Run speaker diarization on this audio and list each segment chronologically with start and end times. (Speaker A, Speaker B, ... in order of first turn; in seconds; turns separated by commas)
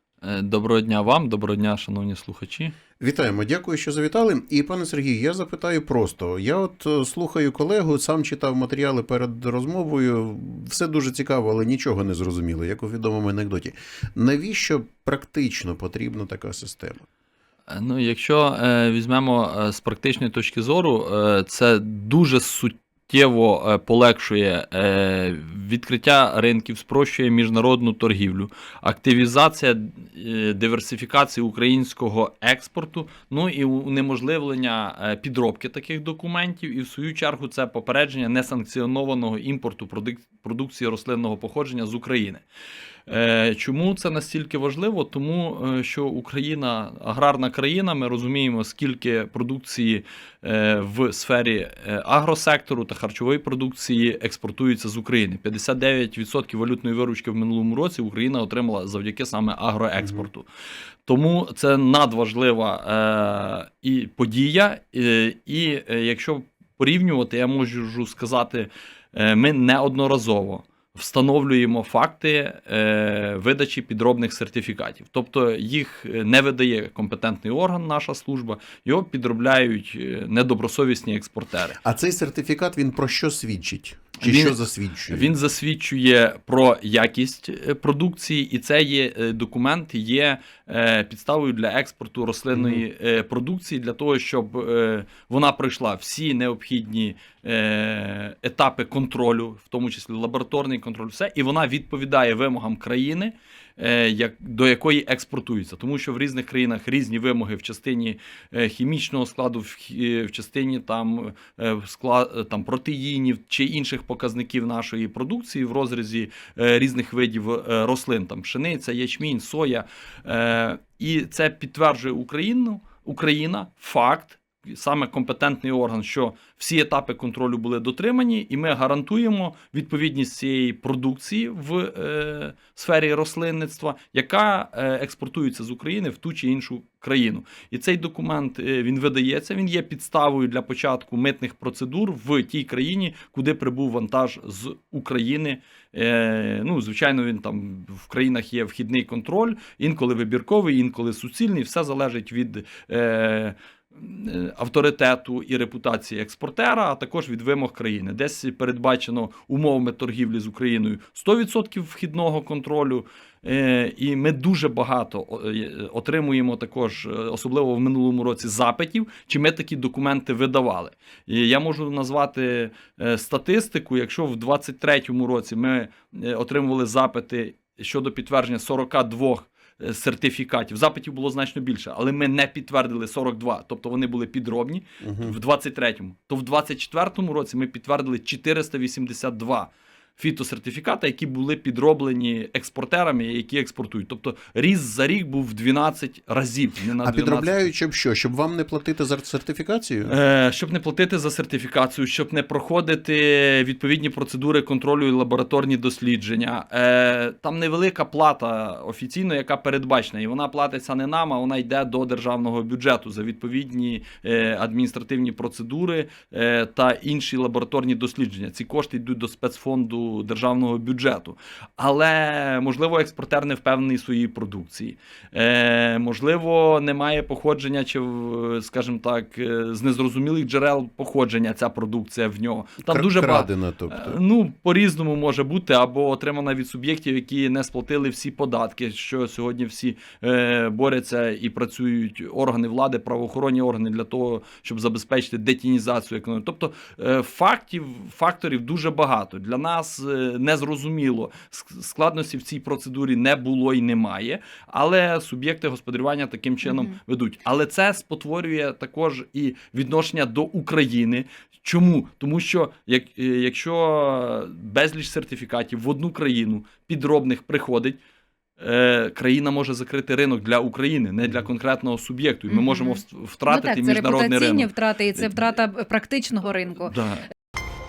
Speaker A: 0.2-2.8, Speaker B: 3.0-17.0, Speaker A: 17.7-42.4, Speaker A: 43.1-60.5, Speaker B: 60.0-60.3, Speaker A: 61.0-81.8, Speaker B: 81.8-85.3, Speaker A: 84.2-84.6, Speaker A: 85.1-197.7, Speaker B: 92.5-92.8, Speaker B: 185.0-185.3, Speaker B: 197.0-200.1, Speaker A: 200.1-268.0, Speaker B: 232.8-234.2, Speaker C: 256.6-257.0, Speaker A: 268.6-275.4, Speaker C: 272.5-276.9, Speaker A: 276.9-277.2